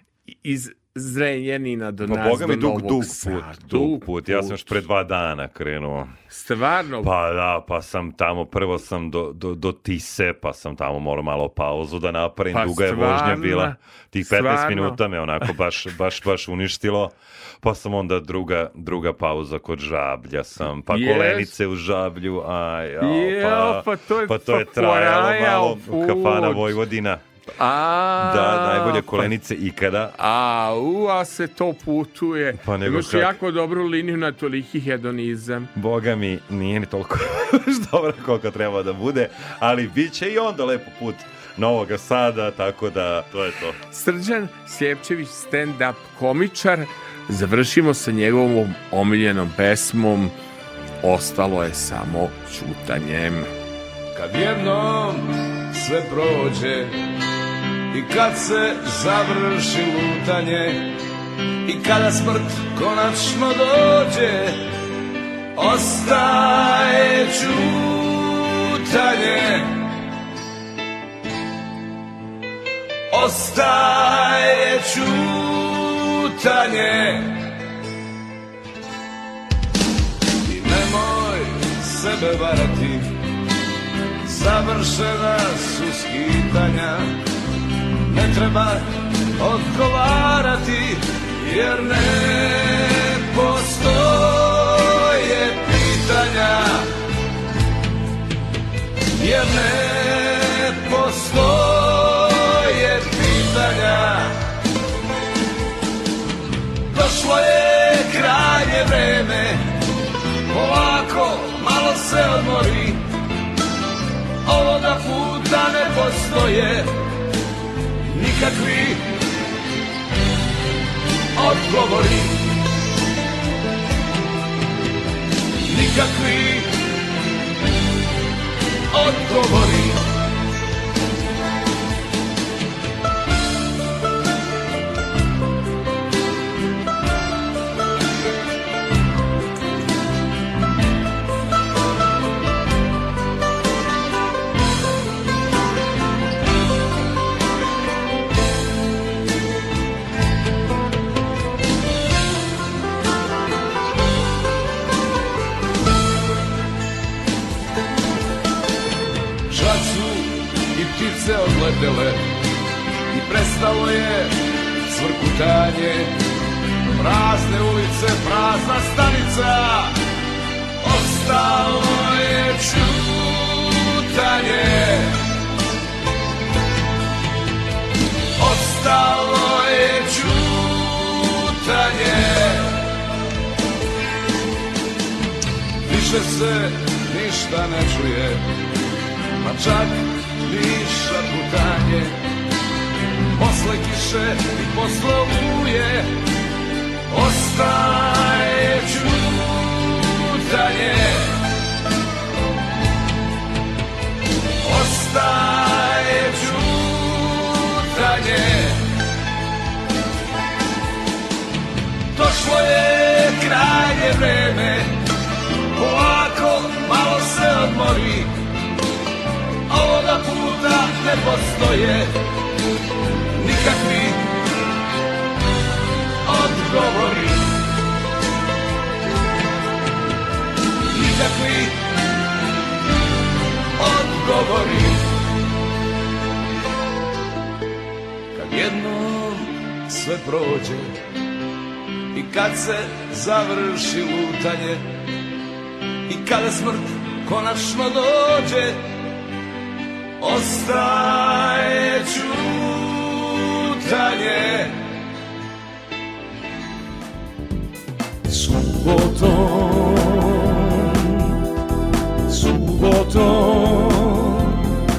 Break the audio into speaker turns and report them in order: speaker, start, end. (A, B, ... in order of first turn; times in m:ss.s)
0:00.3-0:04.8 A
0:02.1-0:06.2 B
0:06.3-0:07.1 A
0:07.0-0:27.2 B
0:12.5-0:15.0 A
0:20.9-0:21.5 A
0:23.0-0:26.8 A
0:27.6-0:29.3 A
0:28.2-0:30.2 B
0:30.2-0:35.7 A
0:32.6-0:33.4 B
0:35.8-0:43.8 B
0:43.9-0:50.3 A
0:51.0-0:53.5 A
0:54.1-0:57.0 C
0:57.9-1:01.0 C
1:01.6-1:04.6 C
1:05.6-1:09.8 C
1:13.1-1:17.4 C
1:20.4-1:23.1 C
1:24.2-1:27.2 C
1:28.1-1:36.9 C
1:39.2-1:44.4 C
1:46.9-1:49.8 C
1:50.5-1:53.0 C
1:54.4-1:57.0 C
1:58.1-1:59.1 C
2:01.4-2:02.5 C
2:05.7-2:06.7 C
2:08.9-2:10.0 C
2:39.5-2:42.3 C
2:43.1-2:46.2 C
2:47.0-2:50.0 C
2:50.8-2:55.2 C
2:58.4-3:02.8 C
3:05.8-3:08.4 C
3:09.4-3:12.2 C
3:13.3-3:16.1 C
3:17.1-3:21.4 C
3:24.6-3:28.9 C
3:32.1-3:35.0 C
3:35.7-3:38.3 C
3:39.7-3:42.2 C
3:43.4-3:44.3 C
3:46.2-3:47.5 C
3:50.9-3:51.8 C
3:53.8-3:55.1 C
3:58.3-4:01.0 C
4:02.1-4:04.9 C
4:06.1-4:08.8 C
4:10.2-4:14.8 C
4:18.3-4:21.4 D
4:22.3-4:24.7 D